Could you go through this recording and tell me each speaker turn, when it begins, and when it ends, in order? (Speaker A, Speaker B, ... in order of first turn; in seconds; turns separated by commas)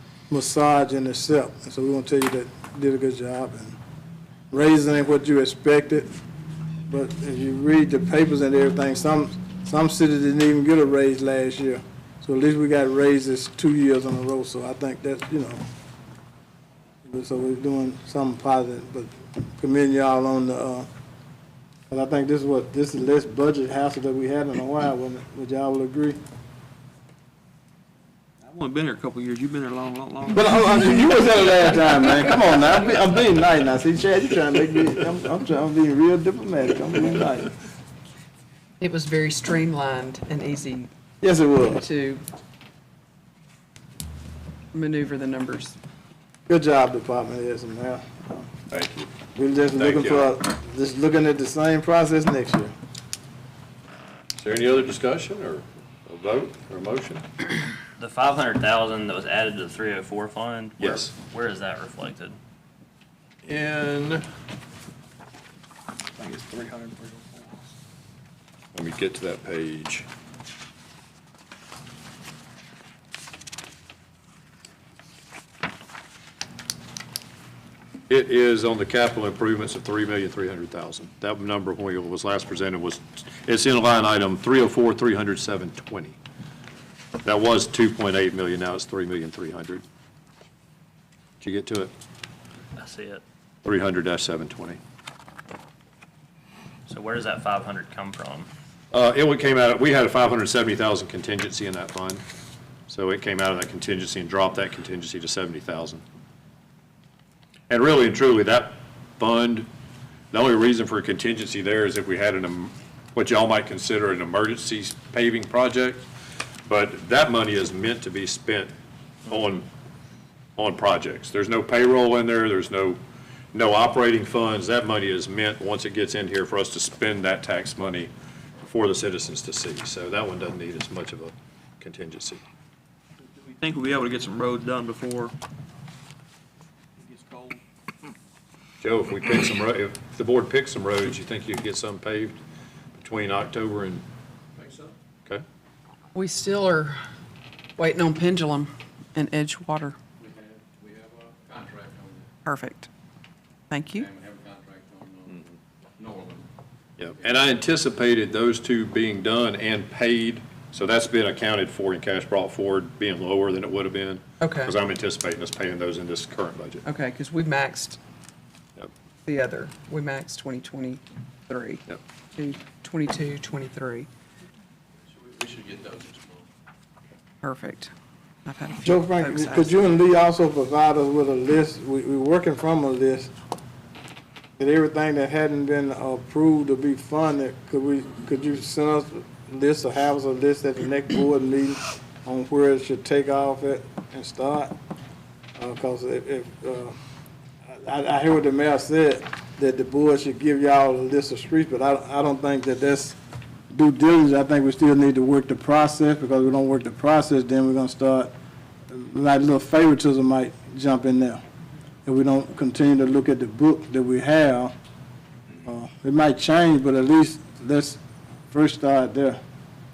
Speaker A: 0.3-3.8, Speaker A: 4.5-6.1, Speaker A: 6.9-15.6, Speaker A: 17.0-20.9, Speaker A: 21.9-26.2, Speaker B: 28.4-30.9, Speaker A: 30.3-37.5, Speaker C: 38.8-40.9, Speaker A: 41.2-41.8, Speaker C: 41.7-42.2, Speaker C: 44.7-45.8, Speaker A: 46.5-48.5, Speaker D: 48.7-49.1, Speaker A: 49.4-52.7, Speaker D: 49.8-50.3, Speaker D: 54.4-57.2, Speaker E: 58.0-62.4, Speaker D: 60.8-61.1, Speaker D: 63.5-64.2, Speaker D: 68.7-70.1, Speaker D: 78.1-86.2, Speaker D: 87.2-89.8, Speaker D: 91.4-91.9, Speaker E: 92.8-93.2, Speaker D: 93.7-94.8, Speaker E: 96.9-98.5, Speaker D: 98.9-102.2, Speaker D: 102.9-106.0, Speaker D: 107.7-109.7, Speaker D: 110.3-116.1, Speaker D: 116.7-118.7, Speaker D: 119.3-119.7, Speaker D: 120.6-123.0, Speaker D: 123.5-128.1, Speaker D: 128.6-132.4, Speaker B: 133.2-135.3, Speaker B: 137.0-137.6, Speaker D: 138.8-142.4, Speaker D: 143.0-144.0, Speaker C: 146.1-147.0, Speaker C: 147.8-150.0, Speaker F: 150.2-152.2, Speaker C: 152.4-152.9, Speaker C: 153.7-154.1, Speaker F: 154.1-155.3, Speaker F: 156.0-156.4, Speaker D: 157.0-166.8, Speaker C: 164.4-164.7, Speaker C: 166.9-168.0, Speaker C: 169.3-171.8, Speaker C: 172.4-174.1, Speaker F: 175.5-176.1, Speaker C: 177.4-177.9, Speaker C: 178.5-179.9, Speaker A: 178.8-183.3, Speaker A: 184.6-194.7, Speaker A: 195.6-197.0, Speaker A: 197.7-203.2, Speaker A: 203.7-208.3, Speaker A: 208.9-211.4, Speaker A: 212.1-214.7, Speaker A: 215.6-218.0, Speaker A: 218.5-219.4